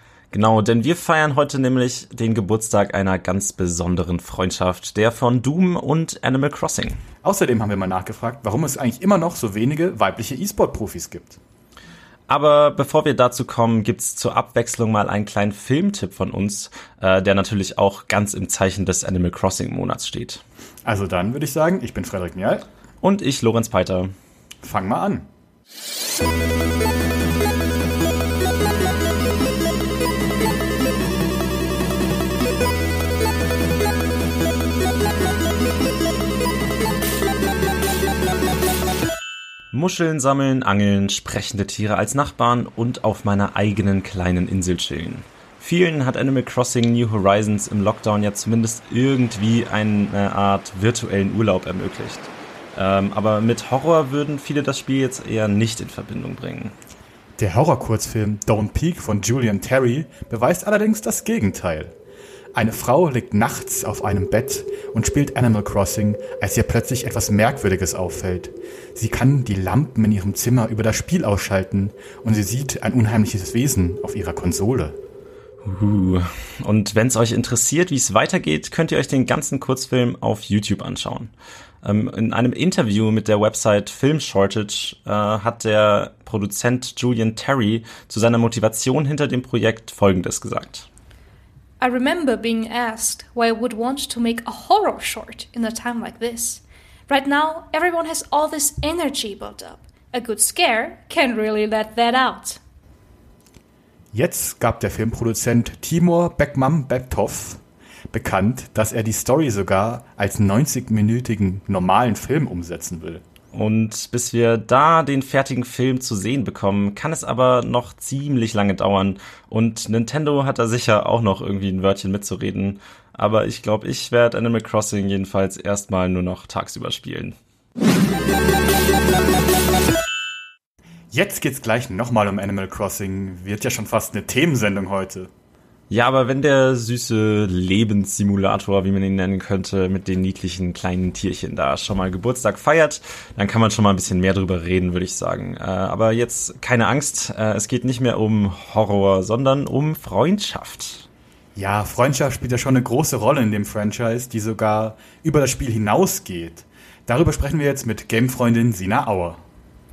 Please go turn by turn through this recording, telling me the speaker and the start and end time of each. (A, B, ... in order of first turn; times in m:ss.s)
0:00.3-0:07.0 A
0:07.2-0:11.4 B
0:12.3-0:20.4 A
0:20.8-0:22.6 B
0:23.0-0:24.1 A
0:24.6-0:25.2 B
0:39.7-0:56.7 A
0:57.4-1:01.9 B
1:02.5-1:15.0 B
1:15.6-1:30.9 A
1:31.8-1:42.6 C
1:44.1-1:47.6 B
1:48.1-1:53.2 B
1:53.5-2:07.3 A
2:11.1-2:15.3 B
2:15.9-2:31.0 A
2:31.6-2:39.4 B